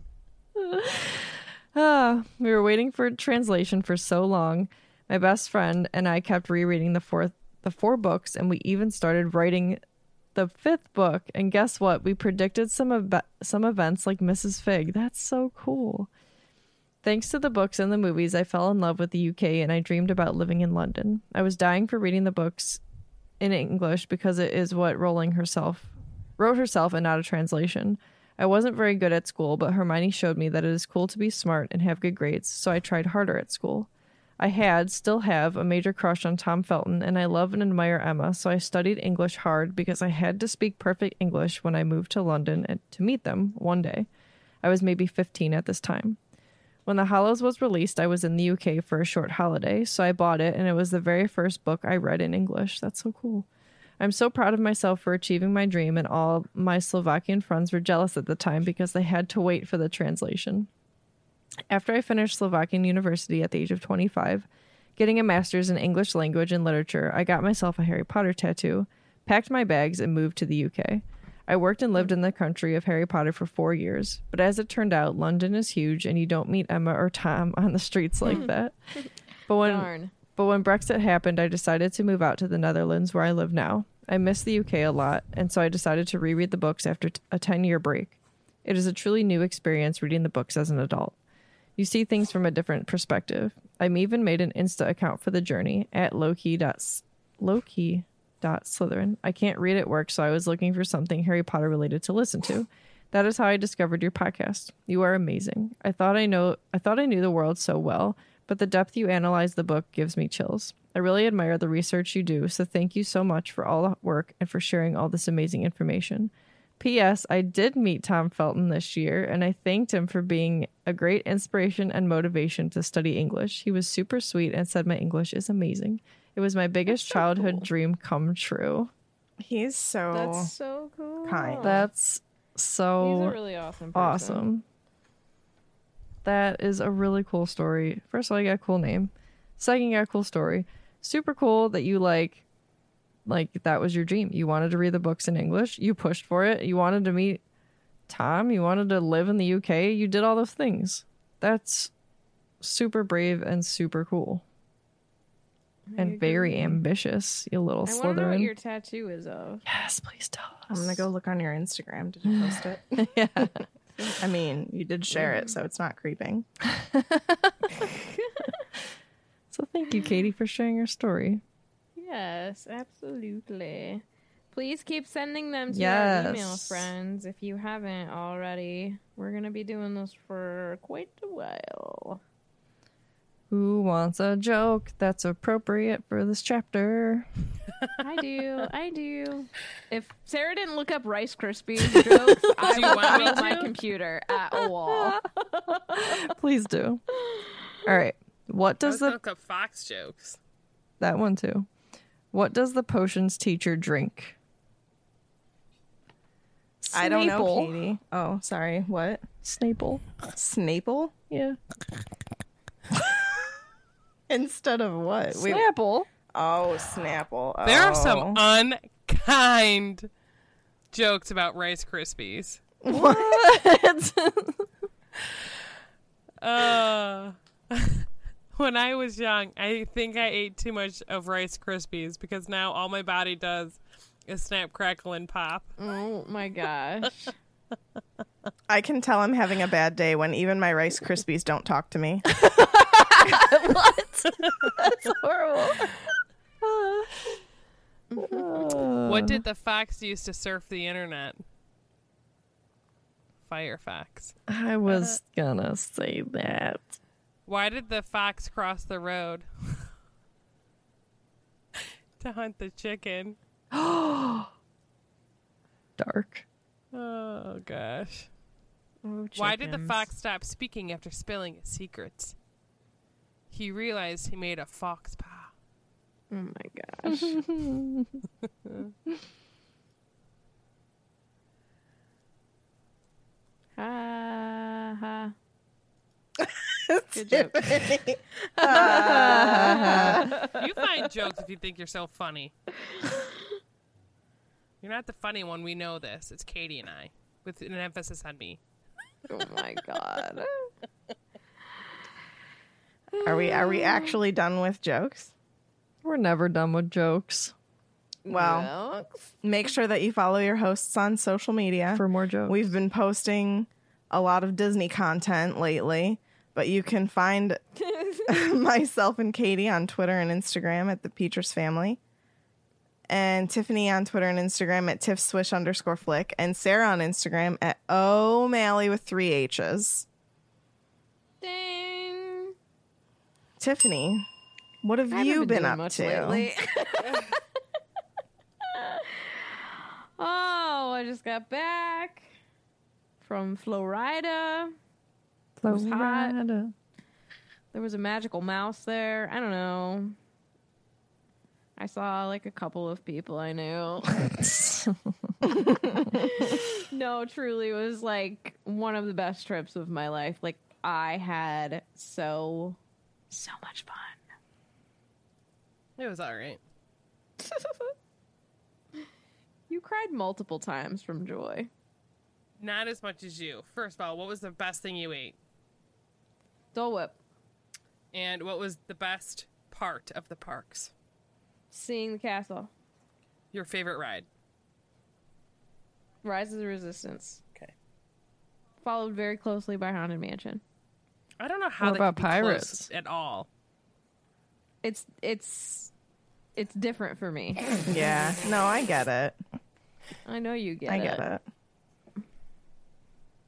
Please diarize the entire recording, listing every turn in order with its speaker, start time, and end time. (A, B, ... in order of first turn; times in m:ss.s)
0:00.6-0:09.8 A
0:10.3-0:16.1 A
0:17.0-0:22.8 A
0:23.4-0:44.1 A
0:44.6-0:46.2 A
0:46.8-0:53.5 A
0:54.0-1:00.7 A
1:01.7-1:18.7 A
1:18.2-1:19.1 B
1:19.5-1:31.2 A
1:19.6-1:20.1 B
1:31.8-2:08.9 A
2:06.9-2:07.7 B
2:09.4-2:10.5 C
2:10.1-2:11.9 B
2:11.2-2:11.8 C
2:11.6-2:13.4 A
2:13.0-2:14.4 B
2:13.9-2:14.6 A
2:16.2-2:22.4 A
2:23.2-2:27.4 A
2:28.1-2:31.9 A
2:32.6-2:34.4 A
2:35.9-2:36.8 B
2:36.0-2:38.5 A
2:37.8-2:39.6 B
2:39.6-2:41.1 A
2:40.7-2:43.5 C
2:42.3-2:43.6 A
2:44.2-2:46.5 C
2:45.2-2:45.4 B
2:46.7-2:47.7 A
2:47.8-2:48.6 B
2:49.5-2:51.4 A
2:49.9-2:50.2 B
2:52.0-3:02.2 B
2:55.7-2:56.9 A
3:03.5-3:07.3 A
3:08.0-3:16.2 B
3:12.6-3:13.7 D
3:12.9-3:13.2 A
3:14.9-3:17.0 A
3:17.2-3:17.8 B
3:17.8-3:19.2 A
3:18.8-3:20.4 D
3:21.0-3:21.7 A
3:22.3-3:24.4 A
3:26.8-3:27.8 A
3:26.9-3:29.2 C
3:29.4-3:30.0 A
3:30.2-3:31.1 C
3:31.3-3:31.6 A
3:34.3-3:35.7 C
3:35.3-3:36.1 A
3:36.3-3:38.4 C
3:37.6-3:40.1 D
3:40.9-3:42.6 D
3:42.8-3:43.4 C
3:42.9-3:44.7 A
3:46.4-3:55.7 D
3:55.8-3:57.3 B
3:58.7-4:02.3 C
4:02.4-4:05.9 A
4:05.3-4:06.0 B
4:06.6-4:07.4 A
4:08.1-4:08.6 B
4:08.2-4:09.4 A
4:09.0-4:11.4 D
4:13.5-4:14.4 D
4:14.5-4:17.0 A
4:14.9-4:15.2 D
4:17.5-4:19.9 D
4:21.7-4:23.4 D
4:23.7-4:24.5 A
4:26.0-4:26.4 A
4:26.9-4:28.3 D
4:29.0-4:30.0 B
4:29.4-4:32.3 D
4:33.5-4:35.5 D
4:36.3-4:37.4 B
4:37.1-4:38.2 A
4:43.8-4:45.3 B
4:46.4-4:50.3 C
4:47.1-4:47.8 B
4:48.6-4:50.3 A
4:48.7-4:50.6 B
4:50.4-4:52.5 D
4:52.9-4:53.4 B
4:54.8-4:58.6 D
4:59.3-5:00.7 B
5:03.1-5:04.2 B
5:03.2-5:05.3 C
5:06.0-5:07.5 A
5:08.2-5:09.3 B
5:08.3-5:08.7 C
5:09.4-5:17.6 C
5:11.9-5:12.6 A
5:17.8-5:18.4 B
5:18.3-5:22.0 C
5:23.1-5:30.0 C
5:31.4-5:32.5 B
5:33.6-5:34.3 C
5:34.8-5:36.5 C
5:35.1-5:37.4 B
5:38.7-5:42.3 B
5:43.2-5:44.7 B
5:45.6-5:46.7 A
5:45.7-5:46.4 B
5:47.7-5:50.1 B
5:51.8-5:54.5 B
5:54.4-5:55.3 A
5:55.6-5:56.1 C
5:56.1-6:02.8 B
6:03.3-6:04.2 B
6:06.0-6:06.6 D
6:07.4-6:07.9 B
6:09.7-6:11.7 B
6:12.6-6:15.4 D
6:16.7-6:17.2 B
6:18.1-6:20.9 D
6:21.7-6:22.7 B
6:23.5-6:24.2 D
6:26.2-6:27.4 B
6:28.8-6:30.6 B
6:31.4-6:33.5 D
6:31.8-6:32.9 A
6:34.8-6:35.9 B
6:36.6-6:37.7 B
6:37.8-6:39.4 C
6:40.2-6:41.2 B
6:40.9-6:41.4 C